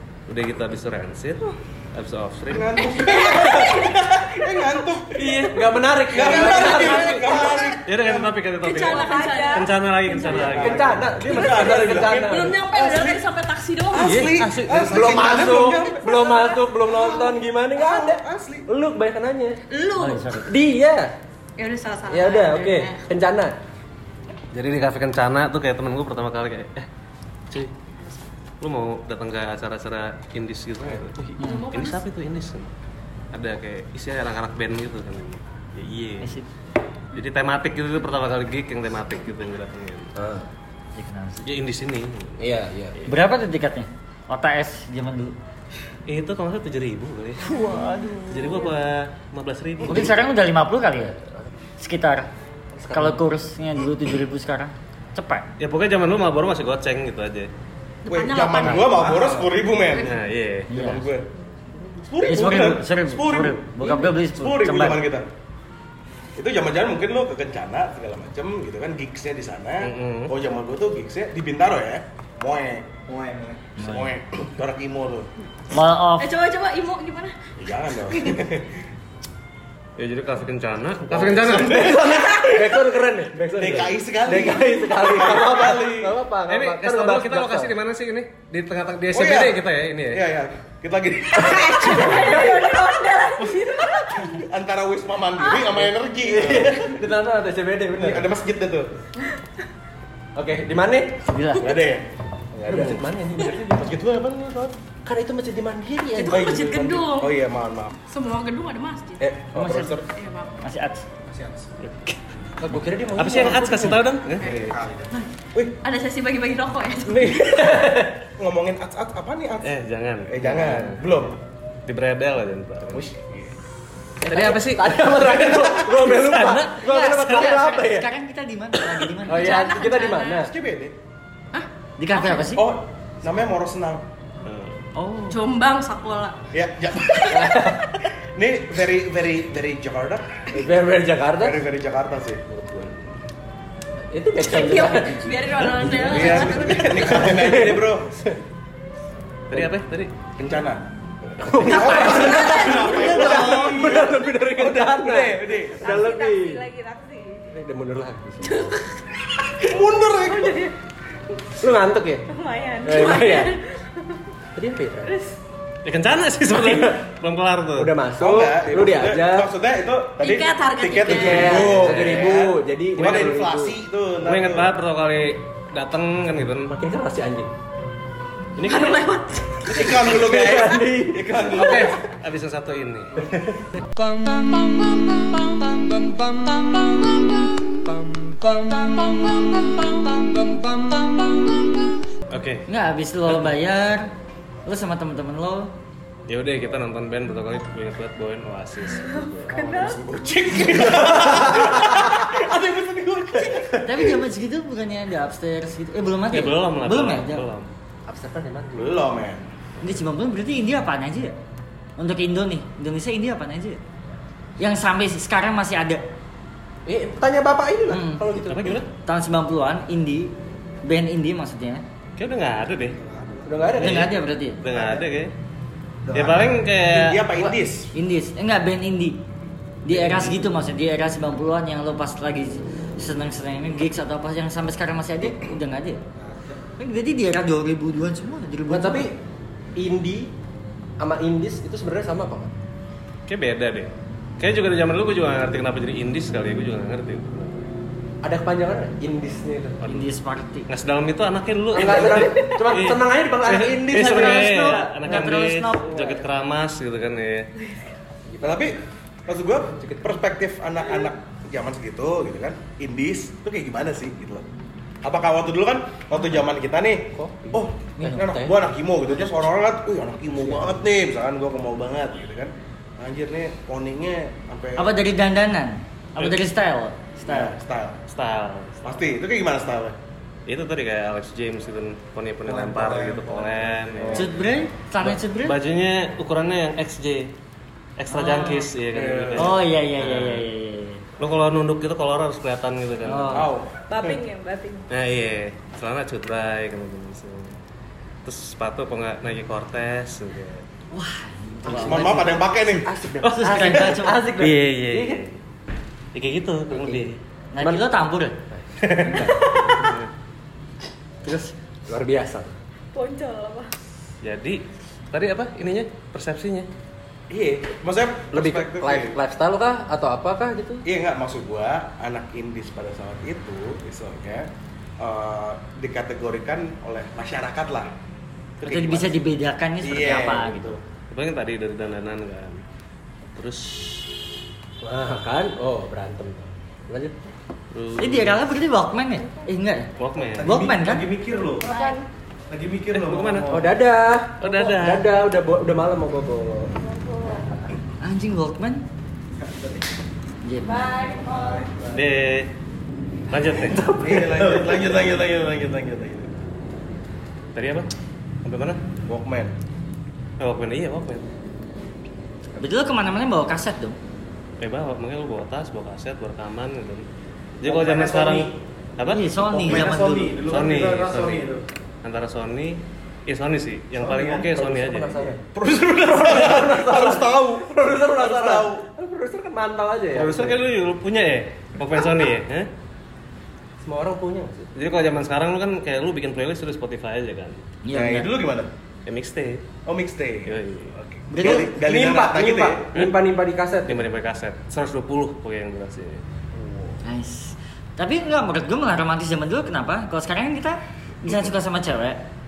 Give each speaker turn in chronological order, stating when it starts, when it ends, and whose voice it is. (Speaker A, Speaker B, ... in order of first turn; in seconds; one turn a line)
Speaker A: 0.3-2.9
Speaker B: 2.5-5.5
Speaker C: 2.8-4.0
Speaker D: 5.1-7.2
Speaker B: 6.1-8.4
Speaker C: 6.2-7.8
Speaker A: 6.7-7.2
Speaker A: 7.8-11.2
Speaker C: 8.6-10.5
Speaker D: 10.2-12.6
Speaker B: 10.2-13.2
Speaker C: 11.3-14.3
Speaker B: 13.9-18.7
Speaker A: 14.0-15.3
Speaker D: 14.8-19.6
Speaker C: 15.8-17.1
Speaker C: 19.7-20.4
Speaker E: 20.0-20.5
Speaker D: 20.4-21.1
Speaker C: 21.6-23.0
Speaker D: 22.1-23.5
Speaker A: 24.5-26.9
Speaker A: 28.6-32.7
Speaker E: 31.4-31.7
Speaker C: 31.4-32.0
Speaker A: 33.3-36.3
Speaker E: 36.2-36.5
Speaker A: 37.1-40.1
Speaker D: 40.2-40.5
Speaker E: 40.9-41.5
Speaker A: 41.5-43.1
Speaker D: 42.4-43.0
Speaker E: 43.0-45.3
Speaker A: 46.1-47.7
Speaker E: 47.5-48.6
Speaker A: 48.3-50.2
Speaker E: 49.8-51.1
Speaker E: 51.8-52.3
Speaker D: 52.7-53.2
Speaker E: 52.9-55.5
Speaker A: 55.6-57.5
Speaker C: 58.0-59.3
Speaker B: 58.1-60.1
Speaker A: 60.0-60.7
Speaker E: 60.7-61.0
Speaker B: 60.7-61.3
Speaker B: 62.1-65.2
Speaker E: 62.2-65.0
Speaker B: 66.3-75.3
Speaker A: 69.8-70.3
Speaker E: 73.8-74.1
Speaker E: 75.7-76.3
Speaker C: 76.2-77.3
Speaker B: 77.6-78.8
Speaker A: 80.0-82.0
Speaker B: 81.1-82.5
Speaker D: 81.5-87.7
Speaker B: 83.5-86.1
Speaker A: 86.5-90.2
Speaker B: 89.1-92.4
Speaker C: 91.3-94.3
Speaker D: 92.0-92.9
Speaker B: 94.2-97.1
Speaker C: 95.4-95.7
Speaker D: 96.2-98.3
Speaker B: 97.9-98.9
Speaker D: 100.3-101.2
Speaker E: 101.3-101.8
Speaker B: 101.6-104.7
Speaker D: 102.7-104.0
Speaker D: 105.0-106.9
Speaker C: 106.1-107.3
Speaker B: 106.3-108.0
Speaker C: 108.1-109.2
Speaker D: 109.2-109.7
Speaker B: 109.5-110.0
Speaker E: 109.5-110.0
Speaker C: 110.2-110.6
Speaker E: 110.6-111.1
Speaker B: 111.3-111.7
Speaker E: 111.9-112.2
Speaker D: 112.6-114.0
Speaker A: 113.1-114.8
Speaker B: 114.4-115.8
Speaker C: 114.4-117.6
Speaker D: 117.0-118.2
Speaker B: 118.4-121.4
Speaker A: 119.6-121.1
Speaker A: 121.8-123.1
Speaker B: 122.9-123.5
Speaker D: 124.2-128.1
Speaker A: 124.3-127.6
Speaker E: 126.8-129.8
Speaker D: 129.0-130.5
Speaker C: 129.3-130.4
Speaker B: 130.3-130.9
Speaker C: 131.5-132.5
Speaker E: 132.0-132.7
Speaker B: 132.5-134.1
Speaker A: 134.4-134.8
Speaker E: 134.9-135.4
Speaker C: 135.3-136.4
Speaker B: 136.5-137.7
Speaker D: 137.3-137.9
Speaker B: 138.3-140.3
Speaker D: 140.5-141.6
Speaker B: 141.4-142.4
Speaker D: 142.5-142.8
Speaker D: 144.1-148.4
Speaker C: 144.4-147.5
Speaker B: 146.0-148.1
Speaker A: 149.5-150.1
Speaker B: 150.4-150.8
Speaker D: 151.4-156.7
Speaker C: 151.6-153.6
Speaker B: 151.6-156.0
Speaker C: 155.8-157.5
Speaker D: 157.5-158.8
Speaker C: 158.4-158.8
Speaker B: 159.6-160.7
Speaker C: 160.1-160.7
Speaker D: 161.6-162.3
Speaker C: 162.3-164.2
Speaker D: 162.8-163.6
Speaker D: 164.5-165.2
Speaker C: 165.1-165.4
Speaker A: 165.8-167.9
Speaker D: 166.5-167.0
Speaker D: 167.8-169.5
Speaker B: 168.2-174.7
Speaker C: 170.2-171.8
Speaker D: 171.0-173.8
Speaker A: 171.7-172.4
Speaker A: 172.9-173.3
Speaker A: 174.2-176.8
Speaker D: 176.7-177.5
Speaker A: 178.6-179.1
Speaker C: 178.6-179.7
Speaker B: 179.6-182.0
Speaker D: 179.7-181.9
Speaker A: 181.4-183.3
Speaker D: 183.2-183.8
Speaker A: 184.0-184.9
Speaker A: 185.6-187.0
Speaker A: 188.1-189.2
Speaker C: 189.0-189.5
Speaker A: 190.1-191.0
Speaker A: 192.3-192.7
Speaker E: 192.7-194.1
Speaker E: 194.6-195.7
Speaker A: 196.3-199.7
Speaker C: 199.0-200.6
Speaker B: 199.5-204.1
Speaker D: 200.9-202.0
Speaker E: 203.8-207.4
Speaker A: 206.3-207.7
Speaker D: 208.1-209.0
Speaker B: 208.7-209.4
Speaker E: 209.8-211.3
Speaker E: 212.0-213.8
Speaker E: 214.6-216.0
Speaker D: 216.8-218.8
Speaker E: 217.9-218.2
Speaker A: 218.4-218.9
Speaker E: 218.9-221.8
Speaker A: 222.2-223.0
Speaker D: 223.4-224.1
Speaker E: 223.8-224.6
Speaker A: 223.8-224.1
Speaker A: 224.6-225.3
Speaker B: 224.7-225.0
Speaker B: 226.1-227.9
Speaker A: 226.1-227.3
Speaker E: 227.9-229.2
Speaker E: 229.8-236.0
Speaker A: 229.9-230.3
Speaker E: 236.8-239.1
Speaker D: 238.7-239.2
Speaker D: 239.8-240.3
Speaker D: 241.0-242.5
Speaker A: 243.3-247.7
Speaker D: 248.2-249.8
Speaker A: 249.8-250.1
Speaker E: 249.8-250.7
Speaker A: 250.7-257.5
Speaker D: 251.7-254.6
Speaker E: 253.9-256.1
Speaker D: 255.9-256.2
Speaker D: 258.3-258.7
Speaker B: 258.4-264.4
Speaker D: 259.8-260.2
Speaker B: 265.0-275.0
Speaker D: 267.1-268.7
Speaker E: 268.0-268.2
Speaker D: 270.3-270.8
Speaker E: 274.8-277.5
Speaker B: 277.3-278.0
Speaker A: 278.1-279.1
Speaker B: 278.8-280.0
Speaker A: 280.5-284.3
Speaker B: 282.4-284.4
Speaker E: 284.1-285.6
Speaker A: 285.0-287.3
Speaker A: 288.0-290.4
Speaker E: 288.1-288.7
Speaker B: 288.9-289.6
Speaker E: 289.4-291.0
Speaker A: 291.2-293.5
Speaker E: 293.0-293.5
Speaker B: 293.3-294.2
Speaker C: 293.9-294.9
Speaker A: 294.9-297.5
Speaker A: 298.2-300.6
Speaker E: 300.9-302.2
Speaker D: 301.6-305.2
Speaker B: 301.7-302.9
Speaker E: 303.2-304.3
Speaker A: 304.4-305.4
Speaker A: 306.1-307.2
Speaker D: 306.7-307.8
Speaker E: 307.5-308.4
Speaker D: 308.5-309.9
Speaker E: 309.0-309.3
Speaker A: 309.6-310.1
Speaker D: 311.2-312.5
Speaker C: 312.9-313.7
Speaker A: 314.2-316.7
Speaker B: 317.3-319.2
Speaker D: 318.3-320.8
Speaker B: 320.8-324.5
Speaker B: 325.0-327.9
Speaker B: 328.6-329.2
Speaker E: 328.6-330.8
Speaker B: 329.8-330.8
Speaker A: 331.1-332.6
Speaker A: 333.3-334.1
Speaker D: 334.8-337.3
Speaker A: 337.7-338.4
Speaker E: 338.0-341.1
Speaker A: 340.0-340.6
Speaker B: 340.3-341.7
Speaker C: 341.6-342.0
Speaker B: 342.5-343.7
Speaker A: 342.9-343.6
Speaker D: 343.5-346.7
Speaker A: 344.4-345.1
Speaker C: 347.0-347.4
Speaker E: 348.0-348.8
Speaker B: 349.4-349.8
Speaker E: 350.4-351.3
Speaker C: 350.7-351.6
Speaker B: 351.2-352.0
Speaker A: 351.9-352.5
Speaker A: 353.3-353.9
Speaker D: 353.6-354.8
Speaker B: 354.0-356.3
Speaker A: 357.5-357.9
Speaker A: 358.4-358.8
Speaker B: 359.1-359.5
Speaker A: 360.4-361.3
Speaker E: 362.6-364.0
Speaker A: 364.6-367.0
Speaker A: 367.6-371.5
Speaker B: 367.7-368.5
Speaker E: 369.1-370.4
Speaker B: 369.4-371.6
Speaker A: 372.0-375.3
Speaker B: 373.9-374.4
Speaker D: 374.4-375.4
Speaker B: 375.5-378.9
Speaker D: 376.0-380.6
Speaker A: 380.1-382.7
Speaker D: 383.8-384.7
Speaker A: 384.7-387.6
Speaker E: 387.8-388.3
Speaker B: 387.9-388.7
Speaker A: 389.1-389.6
Speaker B: 389.9-392.9
Speaker A: 390.4-390.9
Speaker E: 391.3-391.7
Speaker D: 391.4-394.0
Speaker A: 392.9-393.2
Speaker A: 393.8-396.2
Speaker B: 396.5-397.0
Speaker E: 397.0-402.2